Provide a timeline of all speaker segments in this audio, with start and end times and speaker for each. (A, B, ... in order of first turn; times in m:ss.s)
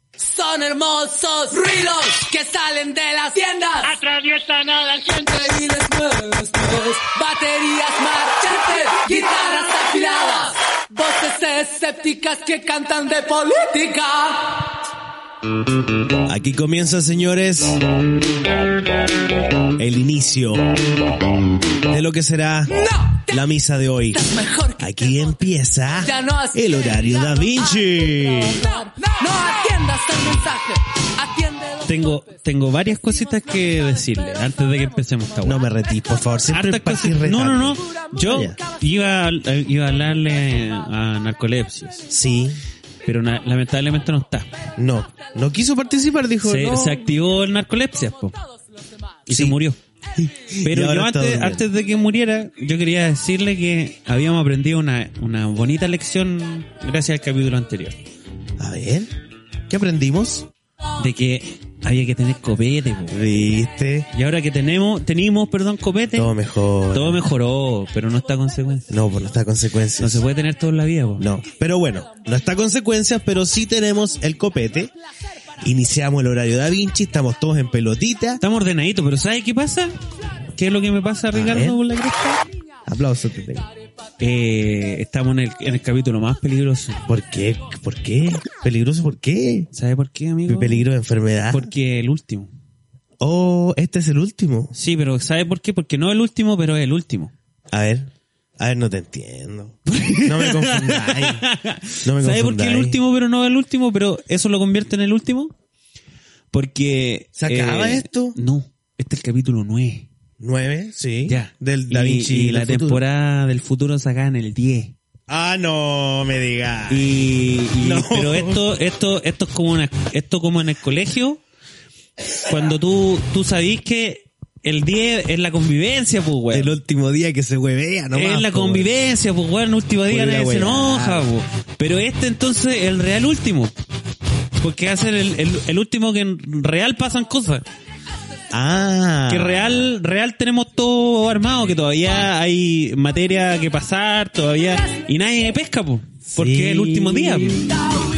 0:00.2-0:04.0 A
0:03.8-0:05.4 B
0:05.1-0:14.7 A
0:16.3-0:17.8 C
0:19.8-0:20.7 C
0:21.9-0:22.7 C
0:22.8-0:23.4 A
0:23.3-0:24.3 C
0:24.1-0:25.3 A
0:24.8-0:28.6 C
0:26.0-0:32.0 A
0:31.9-0:35.6 B
0:35.4-0:38.6 C
0:36.5-0:42.1 B
0:42.1-0:42.6 C
0:43.0-0:44.5 B
0:44.8-0:47.1 C
0:46.4-0:48.4 B
0:49.3-0:49.8 B
0:49.3-0:49.6 C
0:50.2-0:51.7 C
0:50.6-0:58.0 B
0:58.6-0:59.1 C
0:59.7-1:00.5 C
1:01.0-1:03.2 B
1:03.1-1:04.1 C
1:04.1-1:06.3 B
1:06.1-1:07.3 C
1:06.9-1:08.9 B
1:08.9-1:10.2 C
1:10.0-1:11.3 B
1:11.2-1:14.9 C
1:15.6-1:18.4 C
1:18.4-1:20.0 B
1:20.6-1:22.4 B
1:21.3-1:21.8 C
1:22.9-1:23.7 C
1:24.2-1:27.0 B
1:27.1-1:29.7 C
1:29.7-1:30.9 B
1:30.5-1:31.7 C
1:31.5-1:32.5 B
1:33.2-1:34.7 C
1:34.8-1:37.3 B
1:37.7-1:41.5 C
1:39.9-1:45.5 B
1:42.0-1:43.0 C
1:46.5-1:50.1 B
1:47.4-1:48.4 C
1:50.4-1:53.0 C
1:51.3-1:55.0 B
1:55.3-1:57.1 C
1:56.9-2:01.4 B
1:57.8-1:58.6 C
2:02.5-2:06.7 B
2:06.5-2:09.0 C
2:08.1-2:13.7 B
2:10.1-2:11.3 C
2:14.6-2:17.6 B
2:18.5-2:19.9 C
2:19.3-2:27.8 B
2:26.3-2:27.7 C